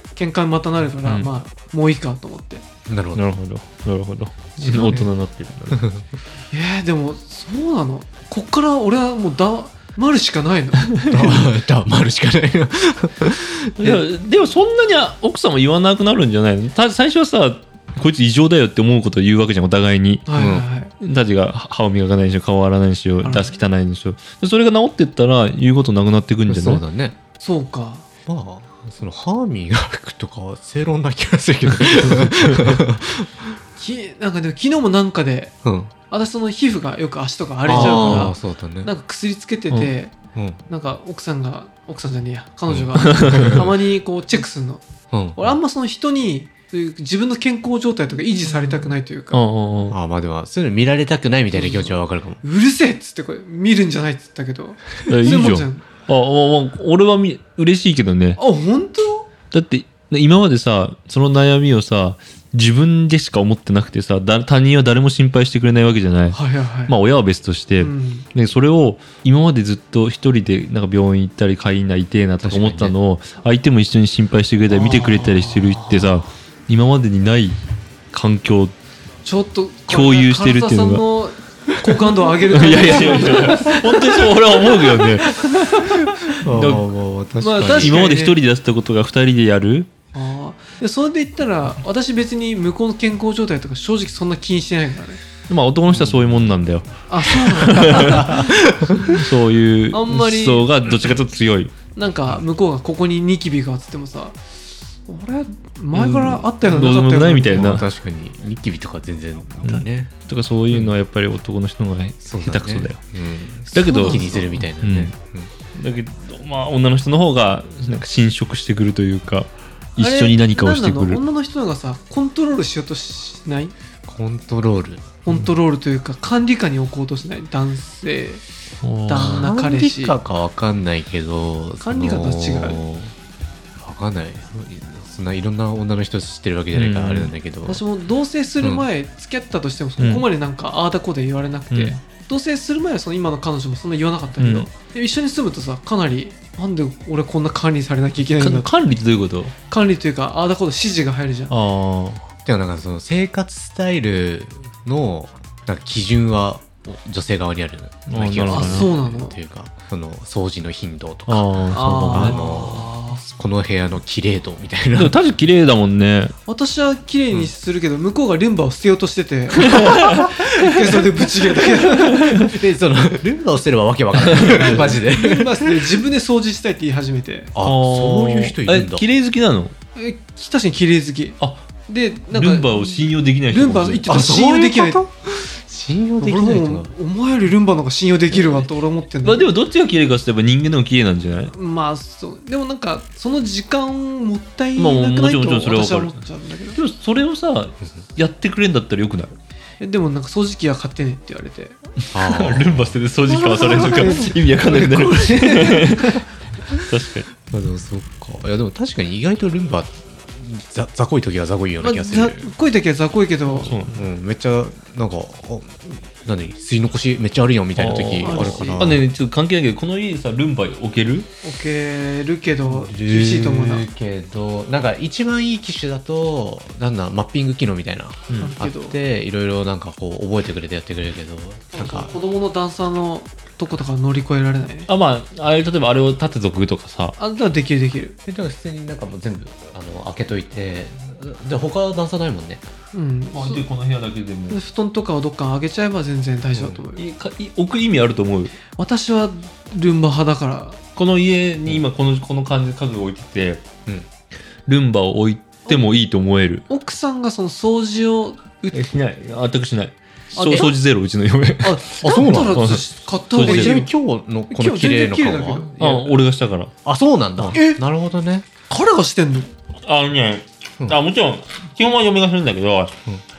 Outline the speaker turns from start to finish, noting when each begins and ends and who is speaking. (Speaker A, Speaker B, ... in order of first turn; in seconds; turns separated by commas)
Speaker A: 0.1-2.6, Speaker B: 1.0-1.3, Speaker C: 2.9-3.2, Speaker B: 3.1-5.8, Speaker C: 4.6-5.1, Speaker C: 5.7-6.1, Speaker A: 6.5-11.0, Speaker B: 10.9-11.3, Speaker C: 11.1-14.0, Speaker B: 13.8-20.2, Speaker A: 20.2-20.9, Speaker C: 20.3-20.6, Speaker B: 21.0-26.8, Speaker A: 23.2-23.6, Speaker C: 26.5-27.1, Speaker A: 27.4-28.0, Speaker C: 28.2-33.4, Speaker B: 31.7-32.8, Speaker A: 33.8-35.5, Speaker C: 35.6-35.9, Speaker A: 36.1-40.1, Speaker C: 37.6-38.9, Speaker B: 37.7-38.3, Speaker C: 40.3-40.6, Speaker A: 40.7-44.8, Speaker C: 42.7-43.7, Speaker B: 43.0-43.6, Speaker C: 45.1-45.5, Speaker A: 45.4-49.4, Speaker B: 49.3-50.0, Speaker C: 49.9-52.4, Speaker A: 51.5-55.8, Speaker B: 55.1-58.4, Speaker A: 58.4-59.3, Speaker B: 59.5-77.6, Speaker A: 66.3-66.9, Speaker A: 67.8-68.3, Speaker C: 72.4-73.0, Speaker A: 74.7-76.2, Speaker B: 78.1-78.7, Speaker A: 79.2-86.4, Speaker B: 79.9-81.0, Speaker B: 82.5-85.8, Speaker C: 86.3-88.1, Speaker B: 86.5-86.8, Speaker A: 87.4-88.4, Speaker B: 87.6-89.9, Speaker A: 90.1-95.2, Speaker B: 95.5-101.7, Speaker C: 95.9-96.4, Speaker A: 97.1-98.6, Speaker C: 97.4-99.2, Speaker A: 99.9-100.9, Speaker A: 101.9-104.4, Speaker A: 105.0-107.8, Speaker B: 105.9-107.8, Speaker C: 107.5-110.1, Speaker B: 109.6-113.0, Speaker C: 112.2-115.5, Speaker B: 113.7-115.1, Speaker A: 113.7-114.6, Speaker B: 115.7-121.2, Speaker A: 120.0-123.7, Speaker C: 124.1-125.1, Speaker A: 125.2-128.4, Speaker B: 128.8-129.5, Speaker A: 129.1-130.1, Speaker C: 129.1-133.1, Speaker A: 131.8-132.8, Speaker C: 133.8-137.8, Speaker B: 136.7-137.3, Speaker A: 137.7-148.7, Speaker B: 140.0-140.2, Speaker B: 141.7-142.0, Speaker B: 144.4-144.7, Speaker B: 148.4-149.5, Speaker A: 149.7-151.5, Speaker B: 151.5-152.2, Speaker C: 152.4-161.5, Speaker B: 158.1-158.9, Speaker A: 158.5-159.3, Speaker B: 161.3-162.4, Speaker A: 161.7-163.2, Speaker C: 162.1-165.1, Speaker B: 164.9-166.3, Speaker A: 166.5-172.5, Speaker B: 169.6-170.6, Speaker B: 172.0-172.5, Speaker C: 172.3-176.0, Speaker B: 174.2-175.0, Speaker A: 174.4-177.5, Speaker C: 177.5-179.0, Speaker B: 177.6-179.7, Speaker A: 179.9-185.0, Speaker B: 181.4-181.7, Speaker B: 182.3-184.1, Speaker C: 184.1-186.9, Speaker A: 186.2-189.5, Speaker B: 188.3-188.7, Speaker B: 189.2-191.5, Speaker A: 191.5-196.8, Speaker B: 194.8-196.2, Speaker B: 196.7-199.3, Speaker A: 199.8-201.8, Speaker C: 202.1-204.7, Speaker B: 202.1-207.3, Speaker A: 203.5-206.2, Speaker C: 207.5-212.5, Speaker A: 211.8-213.7, Speaker B: 213.5-214.0, Speaker C: 213.9-219.0, Speaker B: 217.8-221.3, Speaker A: 218.2-218.9, Speaker A: 221.4-223.8, Speaker C: 222.7-232.2, Speaker A: 228.4-228.9, Speaker A: 231.7-234.9, Speaker B: 234.9-237.2, Speaker A: 237.2-238.2, Speaker C: 238.2-242.6, Speaker A: 242.9-243.7, Speaker B: 243.3-244.6, Speaker A: 244.5-247.0, Speaker C: 246.5-246.8, Speaker B: 246.9-248.6, Speaker A: 248.8-250.8, Speaker B: 250.9-253.7, Speaker B: 254.7-256.6, Speaker A: 256.7-258.9, Speaker B: 258.7-262.8, Speaker A: 260.3-260.8, Speaker A: 261.6-263.9, Speaker C: 262.0-262.8, Speaker B: 263.3-263.8, Speaker C: 263.3-266.1, Speaker A: 264.5-265.7, Speaker B: 265.8-266.7, Speaker C: 266.8-268.4, Speaker A: 267.5-267.8, Speaker A: 268.7-269.5, Speaker B: 269.9-272.9